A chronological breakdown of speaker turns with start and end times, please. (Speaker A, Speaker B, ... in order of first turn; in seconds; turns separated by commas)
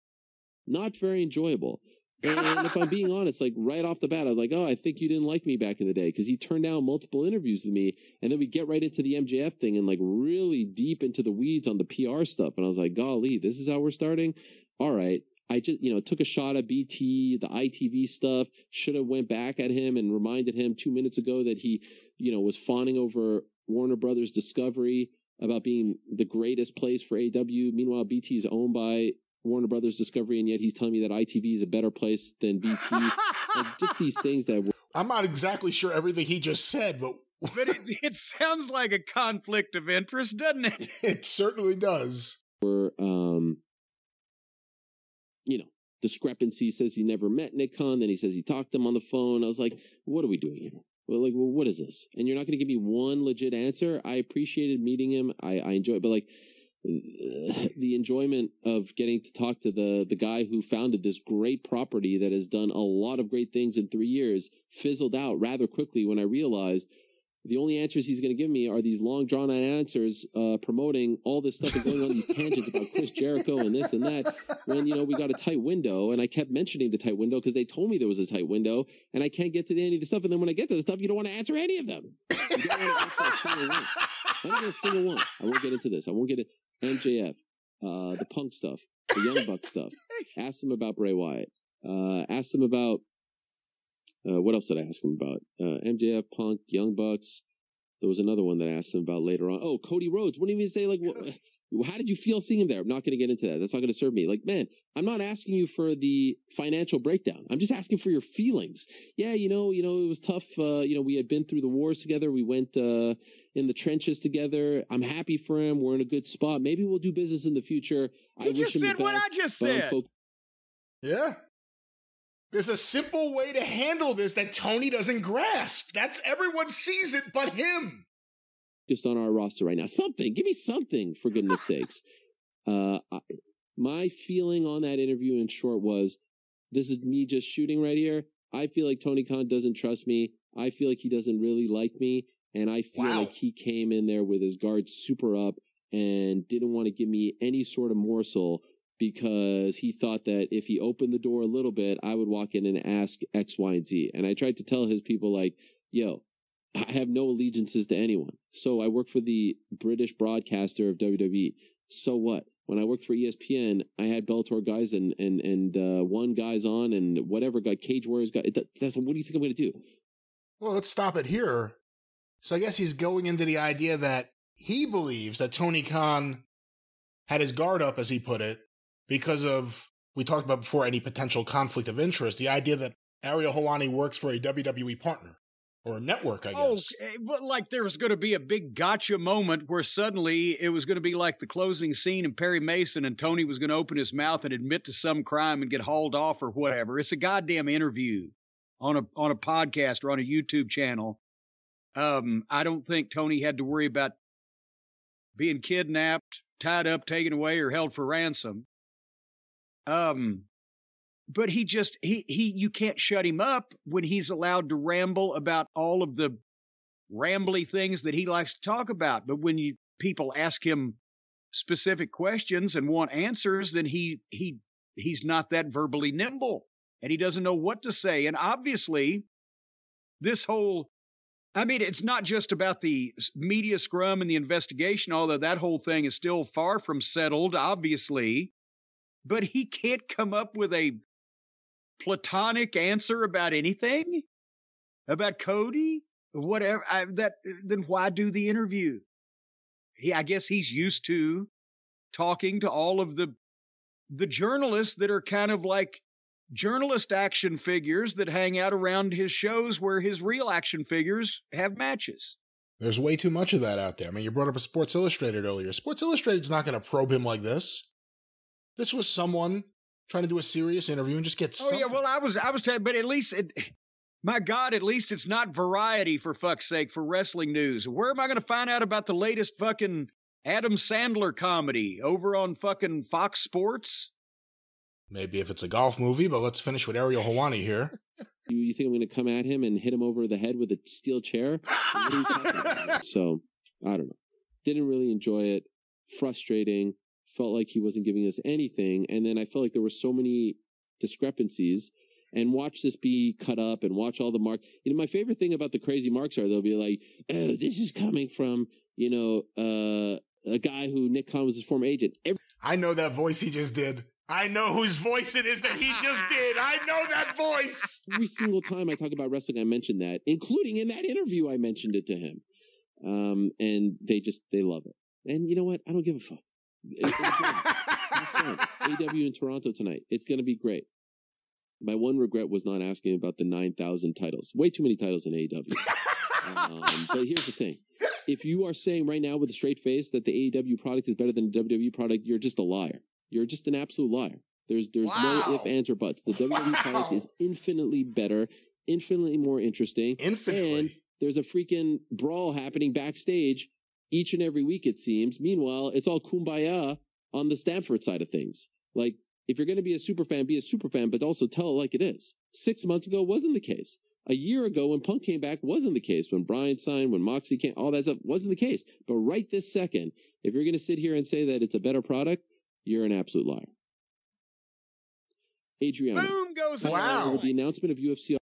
Speaker A: 0.7-34.7, Speaker B: 32.9-33.5, Speaker C: 34.9-37.8, Speaker B: 37.5-40.8, Speaker C: 40.8-42.4, Speaker A: 42.6-43.6, Speaker A: 45.5-56.3, Speaker A: 56.8-66.9, Speaker A: 67.4-83.9, Speaker C: 71.6-73.0, Speaker A: 84.4-93.0, Speaker A: 94.2-97.4, Speaker A: 98.0-120.1, Speaker B: 118.4-120.0, Speaker C: 121.0-121.4, Speaker C: 122.5-128.1, Speaker A: 128.9-132.0, Speaker A: 132.7-133.2, Speaker A: 133.8-136.2, Speaker A: 136.7-156.2, Speaker C: 142.9-143.3, Speaker A: 156.8-169.8, Speaker C: 170.6-171.8, Speaker C: 172.4-176.4, Speaker C: 177.3-186.9, Speaker B: 186.5-201.2, Speaker B: 201.9-204.1, Speaker B: 205.4-208.7, Speaker B: 209.9-210.4, Speaker B: 211.3-216.4, Speaker B: 217.1-221.0, Speaker B: 221.5-229.3, Speaker B: 230.2-230.9, Speaker B: 231.6-238.5, Speaker B: 239.2-241.0, Speaker B: 242.0-244.2, Speaker B: 245.1-249.0, Speaker B: 250.0-251.5, Speaker B: 252.1-253.3, Speaker B: 254.1-262.4, Speaker C: 262.8-267.9, Speaker C: 268.8-272.0, Speaker B: 271.6-273.6, Speaker B: 274.2-284.1, Speaker C: 285.1-288.0, Speaker A: 288.5-312.4, Speaker C: 312.6-318.1, Speaker A: 318.1-322.4, Speaker A: 323.0-330.9, Speaker C: 327.7-328.2, Speaker A: 331.8-335.9, Speaker A: 336.4-373.7, Speaker B: 345.1-345.7, Speaker C: 350.2-350.9, Speaker A: 375.8-378.4, Speaker B: 376.1-377.5, Speaker C: 376.8-377.4